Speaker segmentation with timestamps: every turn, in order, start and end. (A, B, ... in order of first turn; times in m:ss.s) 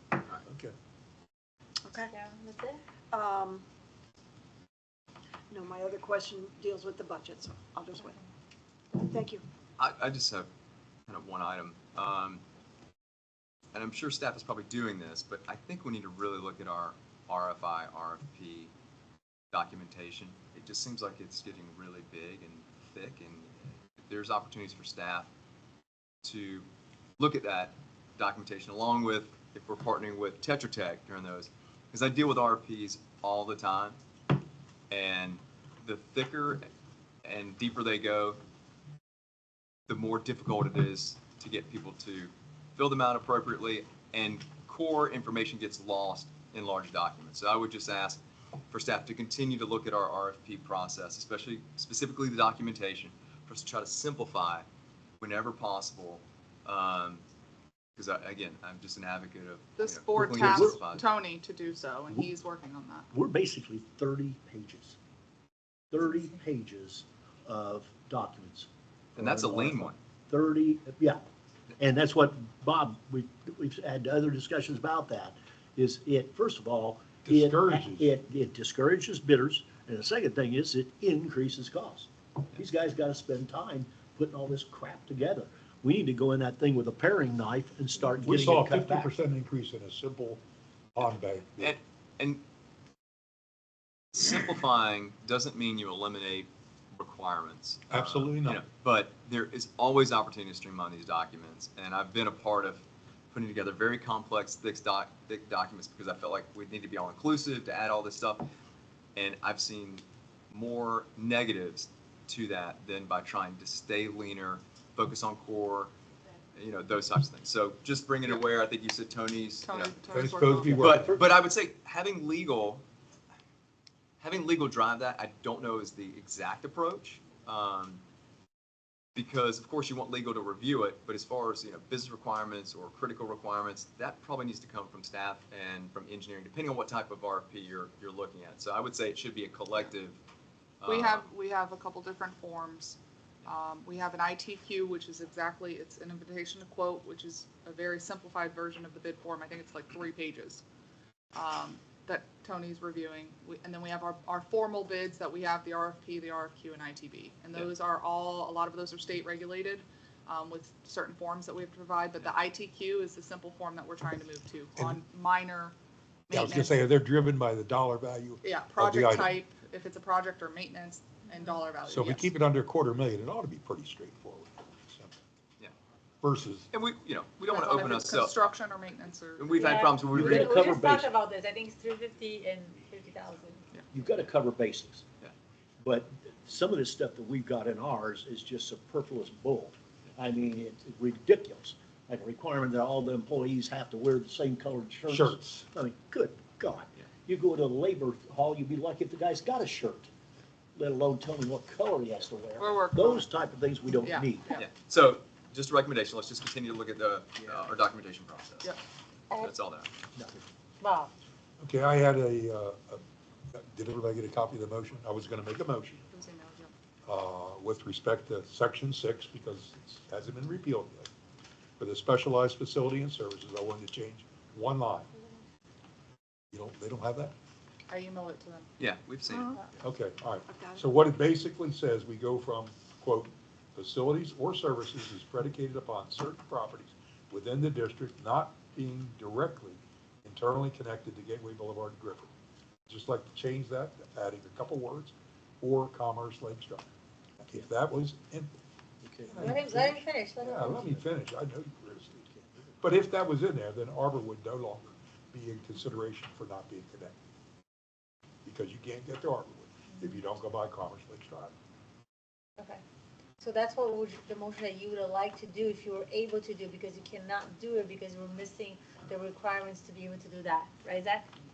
0:00.5-0:00.7 A
0:01.8-0:02.1 B
0:02.1-0:02.8 C
0:03.1-0:03.6 B
0:05.5-0:08.2 B
0:08.9-0:09.4 B
0:09.8-0:10.5 D
0:11.1-0:12.4 D
0:13.7-0:18.7 D
0:19.5-0:25.3 D
0:26.2-0:26.7 D
0:27.2-0:34.0 D
0:34.9-0:36.7 D
0:37.2-0:38.4 D
0:39.9-0:54.6 D
0:55.2-0:57.2 D
0:58.0-1:01.1 D
0:59.8-1:03.1 E
1:00.1-1:00.8 F
1:03.1-1:05.0 F
1:05.9-1:11.2 F
1:09.2-1:10.0 D
1:11.8-1:29.1 F
1:17.2-1:18.1 A
1:28.2-1:30.4 A
1:31.0-1:31.8 A
1:31.6-1:32.4 D
1:34.1-1:48.5 D
1:37.9-1:38.6 A
1:49.2-1:55.9 D
1:56.5-2:00.0 D
1:59.6-2:00.8 E
2:00.1-2:01.1 A
2:00.7-2:01.3 F
2:00.8-2:02.8 D
2:04.2-2:08.0 D
2:09.2-2:20.2 D
2:20.8-2:21.3 D
2:20.8-2:30.6 E
2:31.3-2:45.7 E
2:46.3-2:46.8 E
2:46.3-2:49.4 A
2:48.4-2:52.3 E
2:51.3-2:51.6 C
2:51.9-2:55.2 A
2:56.2-2:56.7 A
2:56.7-2:58.5 D
2:57.4-2:59.7 E
2:59.4-3:00.7 D
2:59.5-3:03.8 C
3:00.1-3:01.1 F
3:03.9-3:05.0 F
3:05.8-3:20.1 F
3:15.1-3:15.5 A
3:20.8-3:24.4 F
3:22.6-3:23.3 E
3:24.0-3:24.7 E
3:24.5-3:28.7 D
3:29.4-3:29.9 D
3:30.1-3:30.4 F
3:30.8-3:31.1 C
3:31.6-3:36.0 A
3:36.1-3:36.7 E
3:37.0-3:41.1 A
3:41.8-3:45.1 A
3:46.5-3:47.3 A
3:47.9-3:48.7 E
3:48.8-3:49.6 D
3:49.8-4:02.3 A
3:50.5-3:50.8 B
4:02.9-4:06.9 A
4:07.5-4:08.5 A
4:09.0-4:09.6 F
4:09.3-4:12.1 A
4:09.4-4:10.8 C
4:10.4-4:11.2 F
4:12.0-4:12.8 F
4:12.8-4:17.1 A
4:18.4-4:21.5 A
4:23.4-4:31.3 C